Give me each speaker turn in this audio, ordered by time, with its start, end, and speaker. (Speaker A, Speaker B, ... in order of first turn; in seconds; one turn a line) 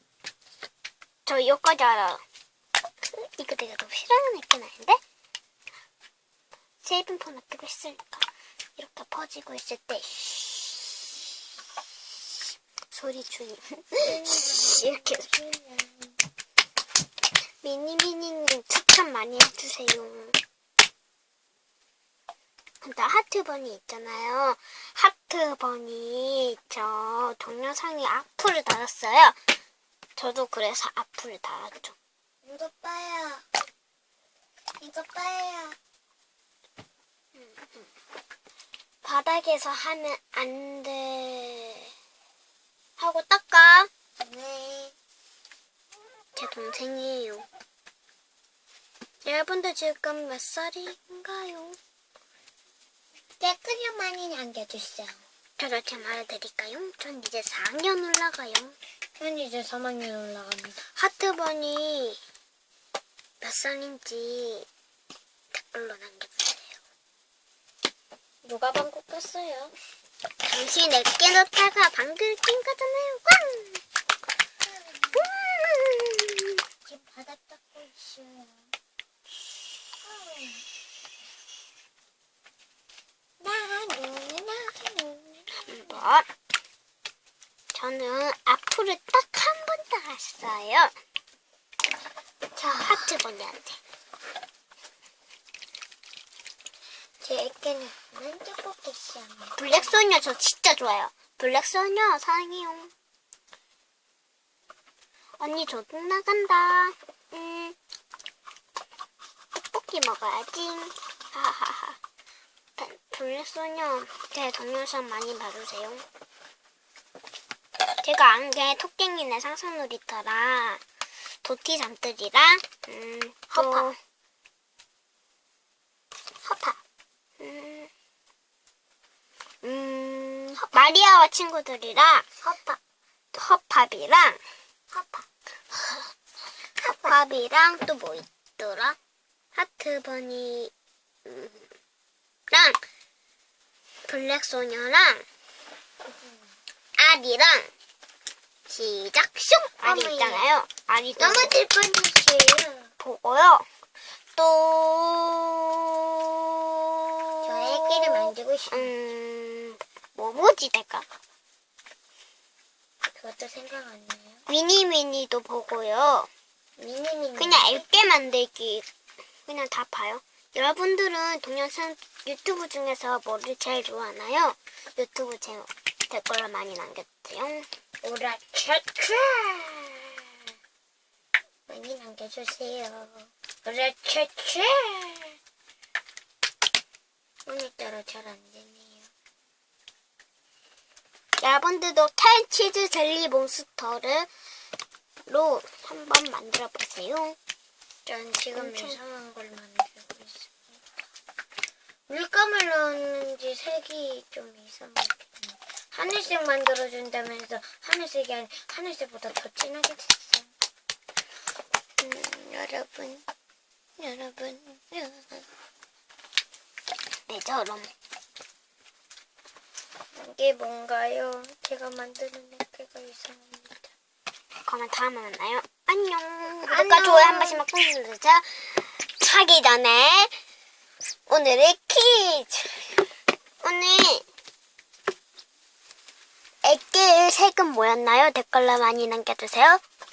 Speaker A: 1.3-2.2
Speaker A: 3.1-5.0
Speaker A: 6.8-11.1
Speaker A: 12.9-15.3
Speaker B: 14.1-16.2
Speaker A: 17.6-20.4
Speaker A: 22.8-29.4
Speaker A: 30.2-32.0
Speaker B: 32.4-33.5
Speaker B: 34.8-35.8
Speaker A: 37.4-37.9
Speaker A: 39.0-41.9
Speaker A: 43.0-43.9
Speaker B: 44.2-45.0
Speaker A: 46.4-47.5
Speaker A: 49.2-51.8
Speaker B: 53.4-55.2
Speaker A: 55.6-58.8
Speaker B: 59.2-60.8
Speaker A: 61.0-62.2
Speaker A: 63.4-64.7
Speaker A: 65.5-66.8
Speaker B: 68.4-69.7
Speaker A: 70.4-73.8
Speaker B: 74.6-75.3
Speaker A: 75.2-76.6
Speaker B: 76.9-78.7
Speaker B: 80.0-80.7
Speaker B: 83.4-86.1
Speaker A: 85.7-86.3
Speaker A: 87.7-90.9
Speaker B: 92.5-93.1
Speaker A: 92.8-93.8
Speaker B: 97.2-100.0
Speaker A: 99.6-102.9
Speaker A: 105.4-107.8
Speaker A: 109.5-112.0
Speaker A: 112.8-116.0
Speaker A: 118.0-120.8
Speaker A: 121.4-124.0
Speaker B: 123.5-123.9
Speaker B: 126.4-126.8
Speaker A: 127.4-127.9
Speaker A: 129.6-132.3
Speaker B: 132.4-132.8
Speaker A: 133.3-134.4
Speaker B: 134.9-135.3
Speaker B: 136.8-137.2
Speaker A: 136.8-139.0
Speaker A: 139.6-140.7
Speaker A: 141.2-141.7
Speaker A: 142.5-142.8
Speaker A: 144.1-145.2
Speaker B: 146.1-146.6
Speaker A: 147.0-147.7
Speaker A: 148.7-151.6
Speaker B: 149.8-150.5
Speaker B: 151.2-152.9
Speaker A: 153.0-153.7
Speaker A: 154.4-156.5
Speaker A: 157.2-161.1
Speaker B: 157.4-158.9
Speaker B: 163.2-164.4
Speaker A: 164.5-166.3
Speaker B: 166.8-167.8
Speaker A: 167.4-168.9
Speaker A: 169.5-177.7
Speaker B: 178.0-180.2
Speaker B: 181.7-185.4
Speaker B: 187.5-189.1
Speaker A: 191.4-194.3
Speaker A: 195.3-197.4
Speaker B: 198.1-200.8
Speaker A: 198.5-199.0
Speaker B: 202.1-210.5
Speaker B: 212.0-213.3
Speaker B: 214.0-215.5
Speaker A: 217.3-217.9
Speaker B: 220.2-223.9
Speaker A: 224.7-230.4
Speaker B: 226.7-227.6
Speaker A: 231.3-233.0
Speaker A: 233.6-234.3
Speaker A: 236.6-239.8